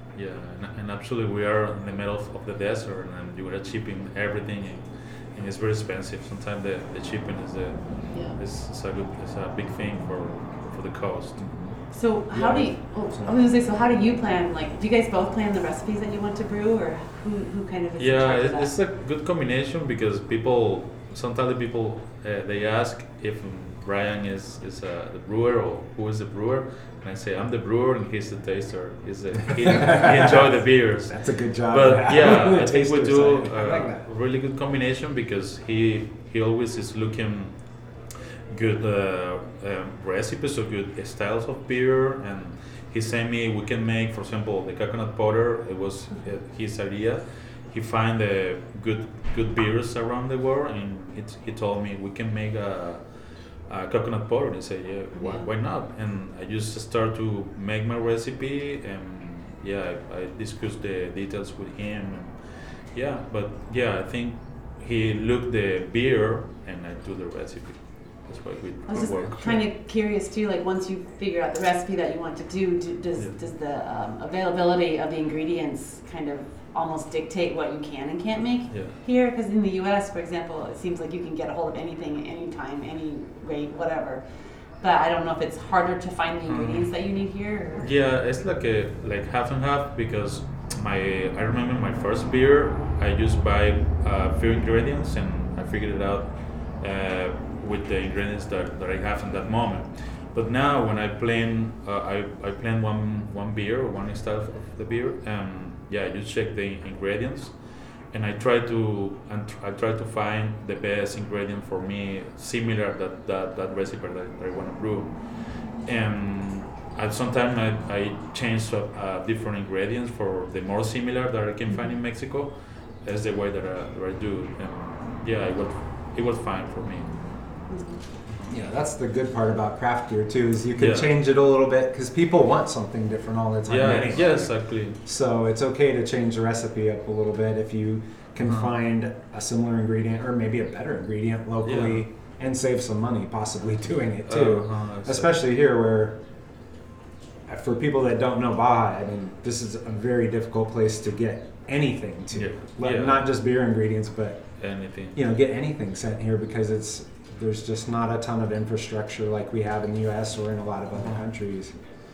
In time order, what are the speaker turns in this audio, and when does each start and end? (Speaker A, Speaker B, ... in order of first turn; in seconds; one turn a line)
Speaker A: 0.1-11.4
Speaker B: 8.1-8.4
Speaker C: 11.4-11.8
Speaker B: 11.9-18.7
Speaker A: 18.0-37.8
Speaker C: 29.6-34.0
Speaker A: 38.5-69.6
Speaker B: 55.1-55.5
Speaker B: 68.9-84.2
Speaker A: 78.7-79.0
Speaker B: 84.8-87.9
Speaker A: 86.5-86.8
Speaker A: 87.8-127.1
Speaker B: 127.7-128.0
Speaker C: 128.4-146.2
Speaker A: 130.8-131.1
Speaker A: 133.7-135.0
Speaker A: 138.4-138.7
Speaker A: 141.6-142.1
Speaker A: 144.2-145.3
Speaker C: 147.5-161.8
Speaker A: 152.3-153.3
Speaker A: 154.6-155.2